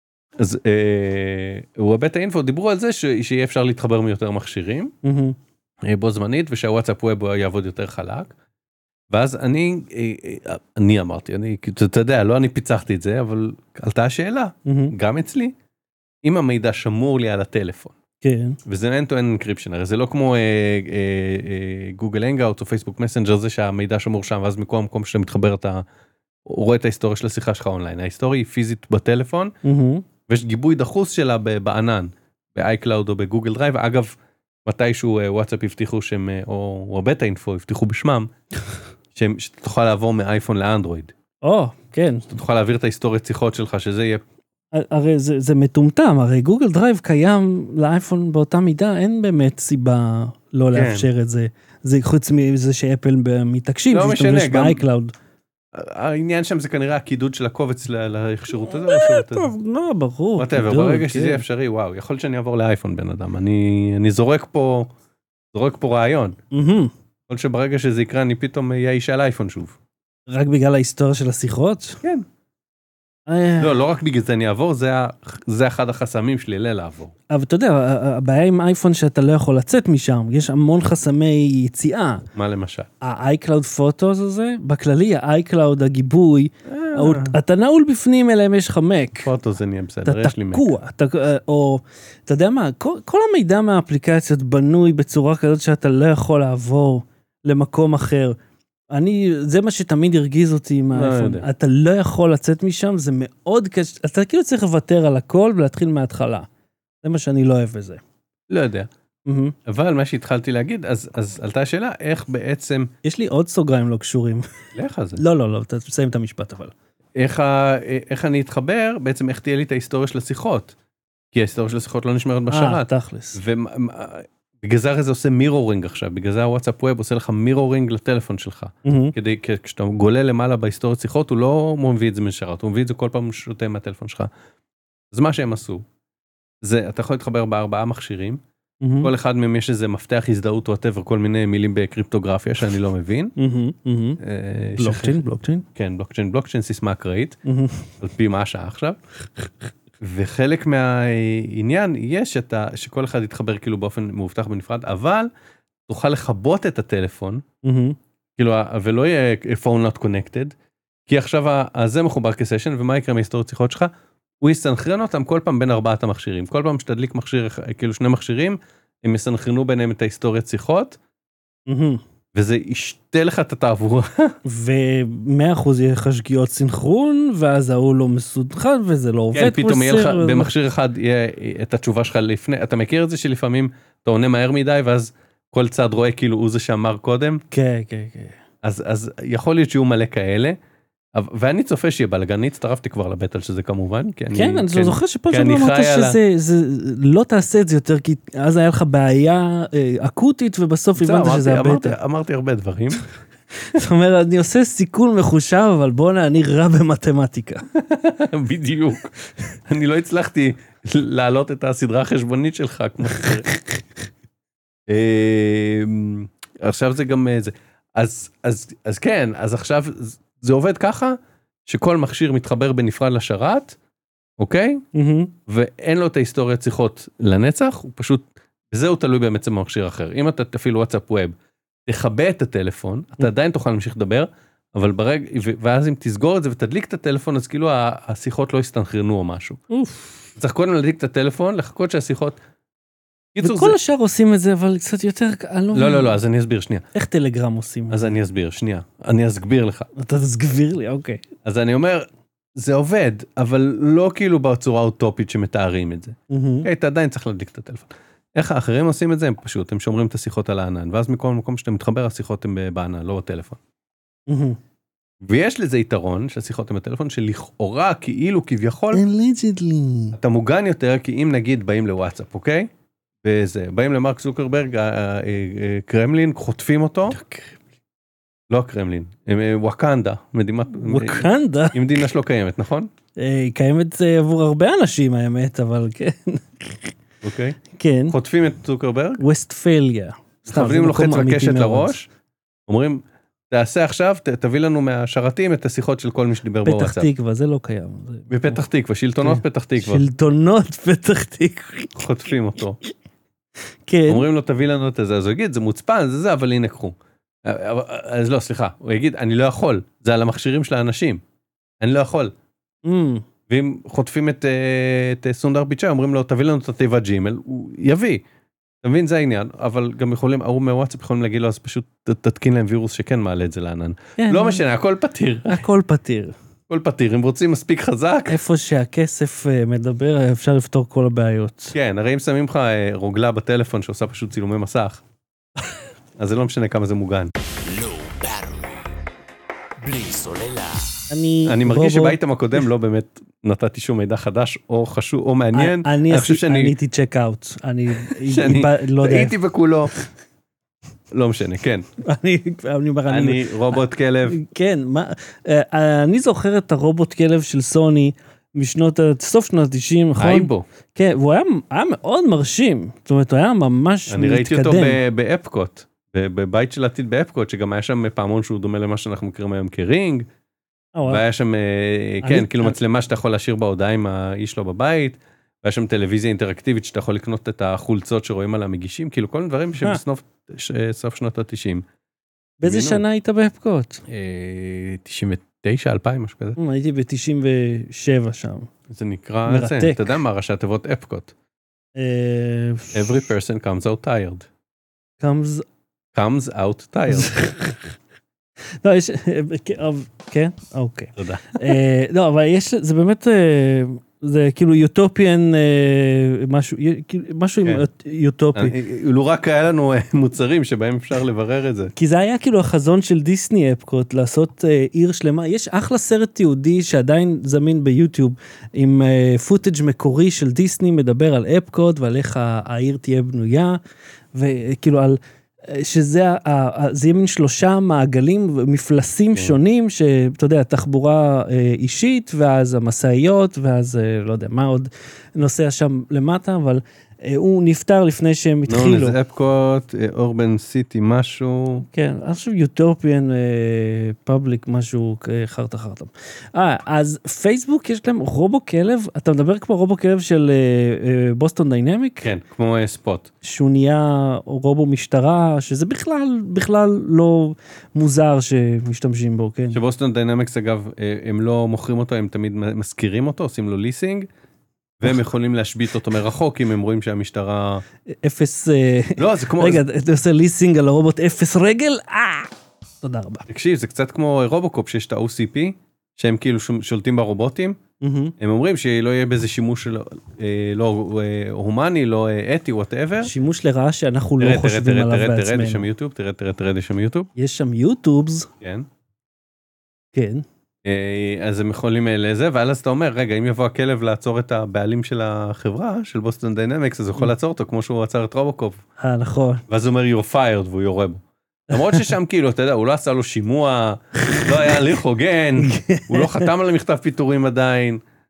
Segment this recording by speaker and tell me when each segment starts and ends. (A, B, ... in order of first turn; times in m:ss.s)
0:00.4-0:04.9 A
0:05.0-0:05.4 B
0:05.8-0:08.3 A
0:09.1-0:15.5 A
0:14.6-0:14.9 B
0:16.2-0:17.9 A
0:18.2-0:18.6 B
0:18.6-0:25.8 A
0:26.4-0:29.6 A
0:29.6-0:30.0 B
0:30.3-0:38.3 A
0:39.1-0:41.1 A
0:41.4-0:42.3 B
0:42.3-0:44.2 A
0:44.7-0:55.1 B
0:50.7-0:51.1 A
0:53.9-0:54.8 A
0:55.7-0:59.5 A
0:58.6-1:01.4 B
1:00.4-1:04.9 A
1:05.5-1:06.4 A
1:06.5-1:06.9 B
1:07.3-1:09.8 A
1:10.3-1:12.0 B
1:13.3-1:13.8 B
1:13.6-1:17.1 A
1:17.3-1:22.2 B
1:22.3-1:22.9 A
1:23.0-1:29.3 B
1:26.6-1:27.4 A
1:29.2-1:30.7 A
1:30.0-1:38.4 B
1:38.9-1:46.5 B
1:40.9-1:41.5 A
1:47.0-1:48.0 B
1:48.5-1:48.9 A
1:49.3-1:49.6 B
1:49.6-1:52.9 A
1:53.0-1:54.4 B
1:54.7-1:55.2 A
1:55.2-1:56.7 B
1:57.2-2:00.7 A
2:01.3-2:14.3 A
2:02.5-2:03.4 B
2:08.8-2:09.1 B
2:15.1-2:15.8 A
2:16.6-2:18.4 A
2:18.8-2:19.1 B
2:19.0-2:23.3 A
2:23.4-2:24.2 B
2:24.2-2:25.2 A
2:24.8-2:25.6 B
2:25.7-2:27.4 A
2:27.4-2:27.9 B
2:28.0-2:29.0 A
2:30.0-2:35.3 A
2:35.9-2:37.4 A
2:37.6-2:38.0 B
2:38.4-2:40.5 A
2:41.1-2:51.0 A
2:51.7-2:52.0 B
2:52.3-2:54.3 A
2:54.4-3:00.5 B
2:59.3-3:07.4 A
3:07.5-3:08.4 B
3:08.6-3:10.6 A
3:11.1-3:16.2 A
3:14.3-3:22.0 B
3:21.0-3:23.0 A
3:23.7-3:27.6 B
3:27.7-3:29.1 A
3:29.6-3:33.4 A
3:33.1-3:33.8 B
3:34.9-3:43.8 A
3:44.4-3:44.8 A
3:44.9-3:45.3 B
3:45.5-3:51.3 A
3:51.9-3:59.6 A
3:59.7-4:00.2 B
4:00.4-4:02.4 A
4:03.3-4:03.8 A
4:03.4-4:06.2 B
4:05.7-4:06.8 A
4:06.9-4:08.2 B
4:07.9-4:09.9 A
4:09.9-4:11.2 B
4:11.4-4:23.6 A
4:16.3-4:16.7 B
4:24.3-4:24.6 B
4:25.2-4:29.0 A
4:28.9-4:30.2 B
4:30.2-4:32.7 A
4:33.2-4:37.2 A
4:38.5-4:42.9 A
4:40.8-4:41.9 B
4:43.2-4:46.9 B
4:47.2-4:47.6 A
4:47.7-4:48.2 B
4:48.1-4:49.2 A
4:49.2-4:51.9 B
4:50.5-4:52.1 A
4:52.7-4:57.1 A
4:56.6-4:58.6 B
4:58.3-5:00.0 A
4:59.2-5:01.9 B
5:01.9-5:02.8 A
5:03.9-5:04.2 B
5:04.1-5:11.2 A
5:11.8-5:12.3 A
5:12.8-5:13.2 B
5:13.5-5:18.2 A
5:18.8-5:25.6 A
5:24.2-5:24.6 B
5:25.5-5:26.3 B
5:26.7-5:28.4 A
5:28.3-5:31.7 B
5:31.7-5:35.0 A
5:36.2-5:37.3 A
5:37.4-5:38.9 C
5:39.8-5:41.1 C
5:41.1-5:42.2 B
5:41.4-5:46.7 A
5:45.5-5:49.3 B
5:48.0-5:49.9 A
5:51.1-5:51.9 A
5:52.0-6:05.0 B
5:53.1-5:54.4 A
6:00.2-6:00.7 A
6:04.1-6:10.2 A
6:10.9-6:11.2 B
6:11.1-6:21.8 A
6:12.2-6:12.8 B
6:22.6-6:24.0 B
6:22.6-6:23.0 A
6:24.1-6:26.6 A
6:26.6-6:28.7 B
6:28.9-6:31.3 A
6:29.4-6:30.1 B
6:32.0-6:33.1 B
6:32.9-6:34.5 A
6:35.2-6:35.6 B
6:36.1-6:37.4 A
6:37.1-6:37.9 B
6:38.8-6:48.8 B
6:41.2-6:41.8 A
6:48.5-6:51.9 A
6:51.9-7:03.8 B
7:04.3-7:19.2 B
7:18.7-7:21.8 A
7:21.9-7:32.3 B
7:32.2-7:33.3 A
7:33.4-7:39.8 B
7:39.7-7:44.3 A
7:45.0-7:47.8 A
7:48.2-7:52.5 B
7:49.2-7:49.8 A
7:53.0-7:53.4 B
7:53.5-7:57.8 A
7:58.0-7:58.3 B
7:58.4-8:03.3 A
8:03.2-8:05.9 B
8:04.4-8:07.3 A
8:07.4-8:08.5 B
8:08.6-8:08.9 A
8:10.1-8:10.4 B
8:10.8-8:18.8 A
8:19.0-8:19.6 B
8:19.7-8:28.0 A
8:21.7-8:22.1 B
8:24.3-8:24.7 B
8:25.6-8:26.5 B